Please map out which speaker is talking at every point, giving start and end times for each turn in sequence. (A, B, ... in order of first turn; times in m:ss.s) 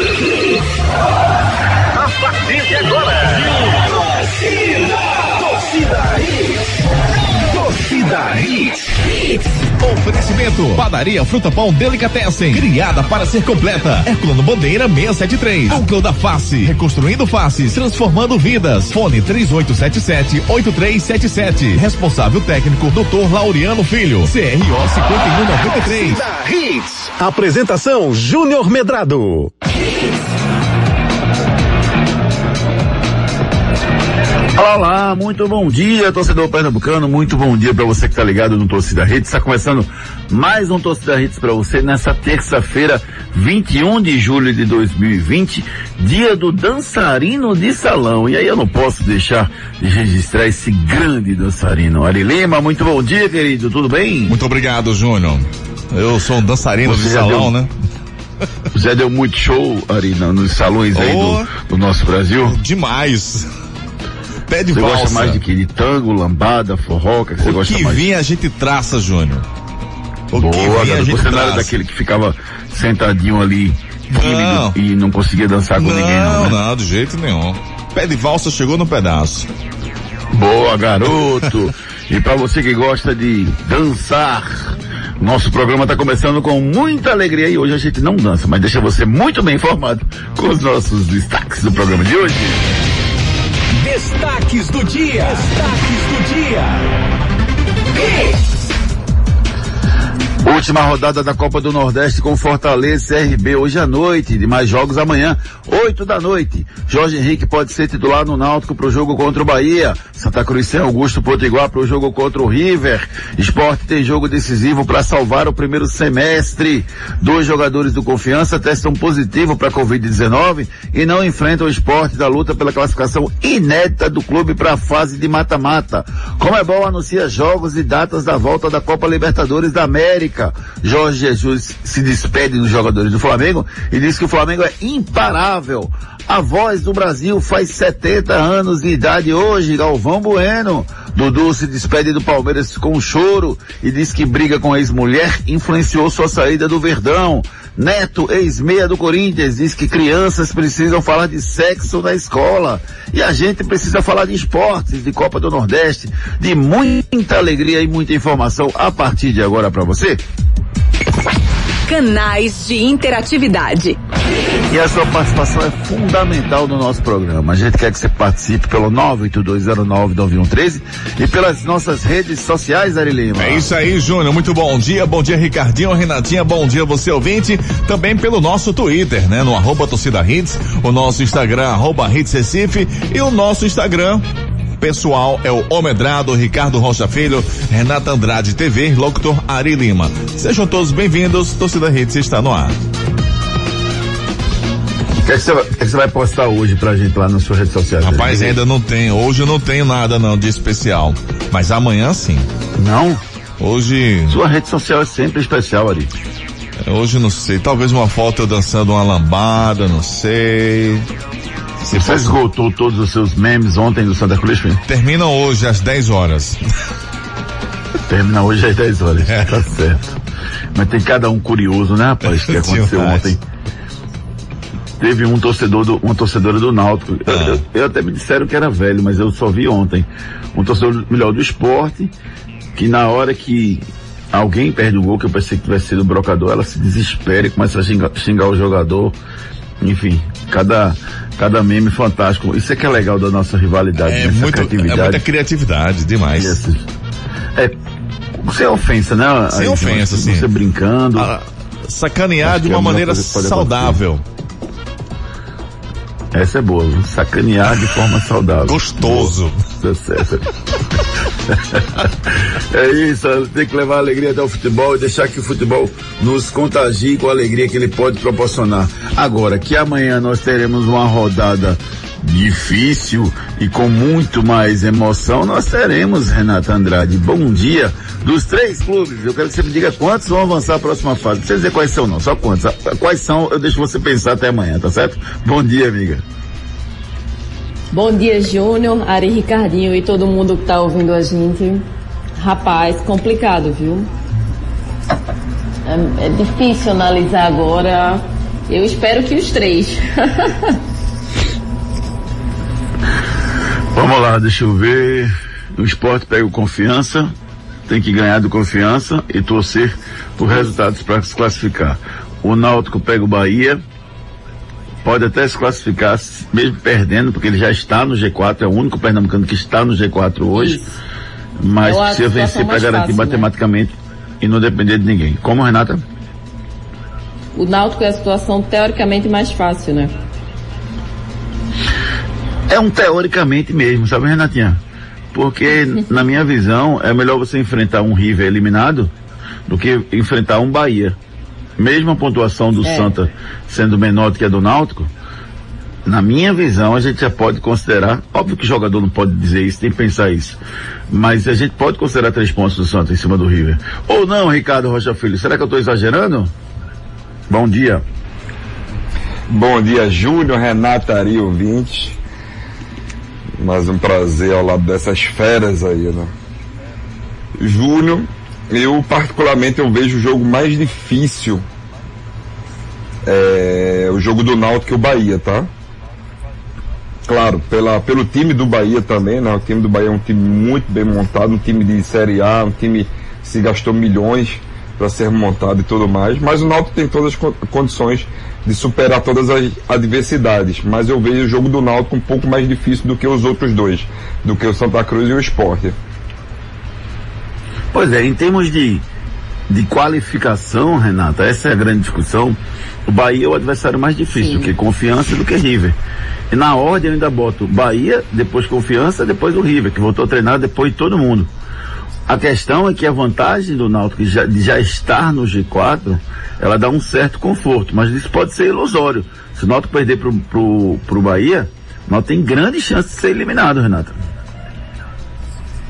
0:02.0-0:03.7 A
0:05.4-0:06.5 A
0:07.4-0:09.0 A
0:09.8-0:26.2 B
0:25.2-0:29.5 A
0:34.6-0:54.4 C
0:54.3-0:57.7 B
0:56.8-0:57.5 C
0:58.7-1:02.6 C
1:00.9-1:01.5 B
1:02.4-1:03.4 B
1:04.5-1:05.4 B
1:04.7-1:08.1 C
1:07.4-1:09.4 B
1:10.3-1:11.7 B
1:10.3-1:16.6 C
1:14.1-1:14.8 B
1:15.8-1:19.5 B
1:20.3-1:32.6 C
1:33.7-1:36.9 A
1:37.9-1:38.4 A
1:40.4-2:40.2 C
2:41.8-2:44.0 D
2:44.7-2:53.7 C
2:53.3-3:04.2 B
3:04.8-3:12.8 B
3:15.2-3:18.6 C
3:18.0-3:22.5 B
3:22.8-3:23.2 C
3:23.6-3:24.4 B
3:24.3-3:26.1 C
3:26.8-3:31.1 B
3:31.8-3:32.4 B
3:31.9-3:34.8 C
3:34.9-3:36.6 B
3:38.1-3:40.2 C
3:39.3-3:39.6 B
3:40.8-3:43.4 C
3:42.2-3:43.3 B
3:45.0-3:52.1 C
3:47.3-3:47.6 B
3:52.8-3:59.2 C
3:59.8-4:05.2 C
4:04.0-4:06.6 B
4:06.3-4:06.8 C
4:08.4-4:11.3 C
4:09.5-4:10.5 B
4:11.2-4:14.2 B
4:12.5-4:13.0 C
4:12.6-4:13.7 E
4:13.6-4:14.0 C
4:16.3-4:20.5 C
4:18.6-4:19.6 B
4:21.5-4:46.2 C
4:47.9-4:51.8 F
4:52.4-4:54.1 F
4:55.8-5:00.8 F
5:03.9-5:07.3 C
5:07.9-5:13.8 C
5:15.0-5:20.8 C
5:20.5-5:20.9 F
5:21.6-5:26.0 C
5:21.8-5:23.5 F
5:27.5-5:30.1 F
5:32.7-5:34.8 C
5:35.3-5:39.1 C
5:39.7-5:41.2 C
5:41.8-5:45.1 C
5:42.8-5:43.1 F
5:46.0-5:50.6 C
5:51.1-5:56.5 C
5:57.5-5:58.0 C
5:59.5-6:02.2 E
6:03.6-6:06.3 E
6:07.6-6:11.6 E
6:13.2-6:15.7 E
6:17.2-6:36.0 E
6:37.9-6:39.0 C
6:39.7-6:46.0 C
6:44.4-6:44.7 F
6:46.5-6:51.5 C
6:52.3-7:04.1 C